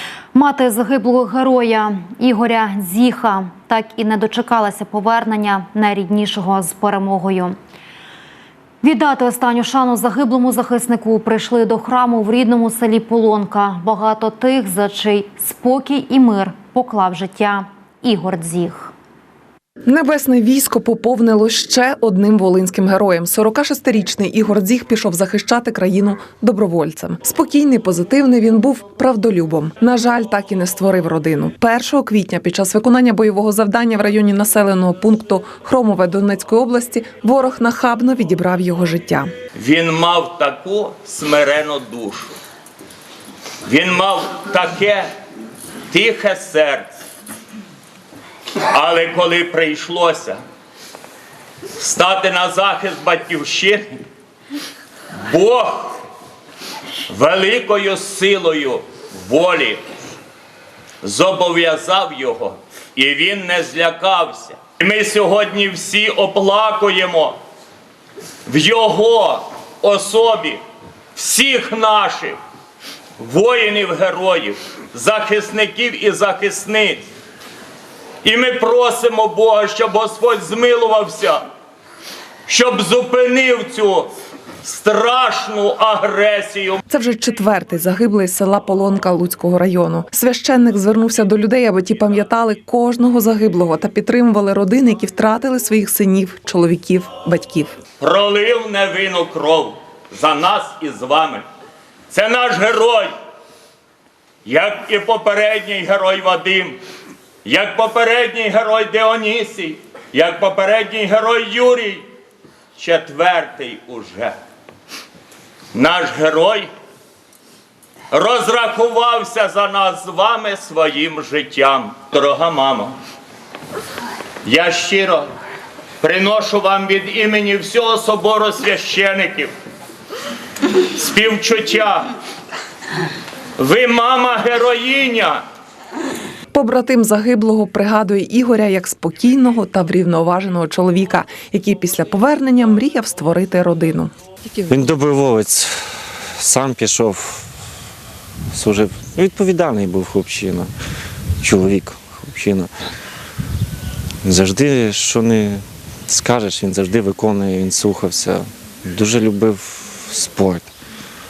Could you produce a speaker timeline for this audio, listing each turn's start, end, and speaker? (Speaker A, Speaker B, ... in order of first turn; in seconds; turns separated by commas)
Speaker A: 0.3-7.5, Speaker A: 8.8-18.9, Speaker B: 19.9-39.3, Speaker C: 39.5-42.3, Speaker C: 43.6-45.1, Speaker C: 45.9-46.9, Speaker C: 48.7-50.4, Speaker C: 51.8-54.0, Speaker C: 55.2-56.0, Speaker C: 57.1-59.8, Speaker C: 61.0-67.4, Speaker C: 68.5-70.6, Speaker C: 71.1-72.4, Speaker C: 73.2-77.0, Speaker C: 78.2-81.4, Speaker C: 82.5-84.1, Speaker C: 84.6-86.8, Speaker B: 86.9-97.8, Speaker C: 98.0-101.4, Speaker C: 102.1-103.1, Speaker C: 104.4-106.8, Speaker C: 107.4-112.0, Speaker C: 112.8-114.3, Speaker C: 115.7-116.7, Speaker C: 118.1-123.0, Speaker C: 124.4-125.3, Speaker C: 126.0-129.5, Speaker C: 130.9-132.1, Speaker C: 133.6-135.4, Speaker B: 136.5-144.1, Speaker D: 144.7-147.5, Speaker D: 148.5-150.7, Speaker D: 151.4-152.7, Speaker D: 154.2-160.7